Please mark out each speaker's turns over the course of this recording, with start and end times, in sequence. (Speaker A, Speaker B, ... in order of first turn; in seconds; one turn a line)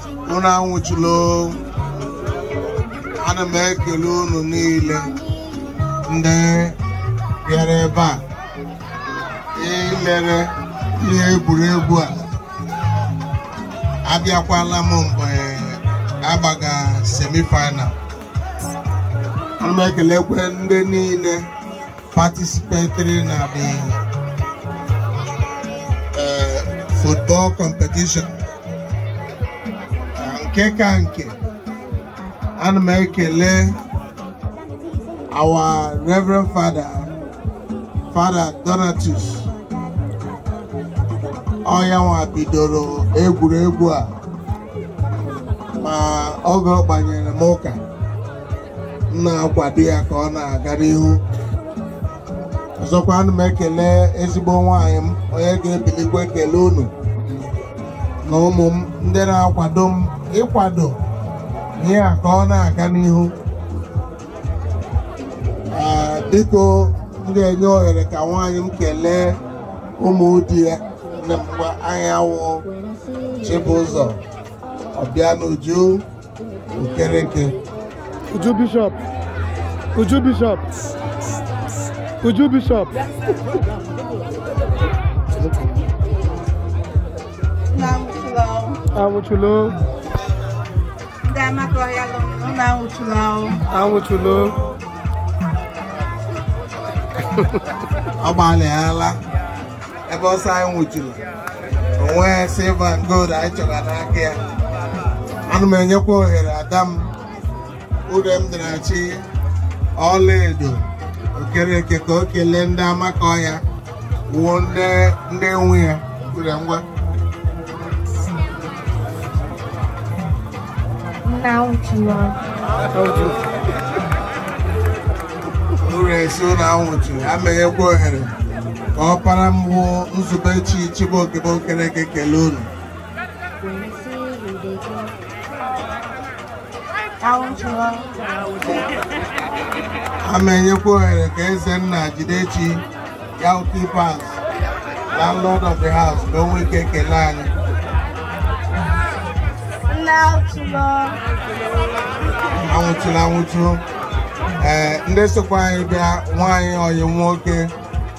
Speaker A: 0.3-1.6
Speaker A: 3.2-5.1
Speaker A: 6.1-6.8
Speaker A: 7.4-8.2
Speaker A: 9.6-12.2
Speaker A: 14.0-17.9
Speaker A: 19.6-21.4
Speaker A: 22.1-24.0
Speaker A: 26.1-28.3
Speaker A: 30.1-31.4
Speaker A: 32.6-33.8
Speaker A: 35.3-37.1
Speaker A: 38.1-39.5
Speaker A: 41.6-44.1
Speaker A: 45.8-47.8
Speaker A: 49.1-51.2
Speaker A: 52.8-56.9
Speaker A: 58.2-61.0
Speaker A: 61.8-63.3
Speaker A: 65.7-69.4
Speaker A: 70.0-72.7
Speaker A: 73.4-74.2
Speaker A: 74.9-76.0
Speaker A: 76.7-77.6
Speaker B: 78.3-79.0
Speaker B: 80.0-80.7
Speaker B: 82.2-82.9
Speaker C: 87.7-88.8
Speaker B: 89.0-89.8
Speaker C: 91.2-93.6
Speaker B: 93.7-94.6
Speaker A: 98.2-99.2
Speaker A: 100.1-101.2
Speaker A: 102.0-104.4
Speaker A: 105.5-107.1
Speaker A: 108.1-109.2
Speaker A: 110.0-113.6
Speaker A: 114.3-116.8
Speaker C: 121.2-122.4
Speaker B: 122.9-123.4
Speaker A: 125.8-128.3
Speaker A: 128.9-132.7
Speaker C: 137.2-138.2
Speaker A: 140.2-142.8
Speaker A: 143.4-144.4
Speaker A: 145.1-147.5
Speaker C: 149.9-151.2
Speaker A: 152.6-153.8
Speaker A: 154.6-157.7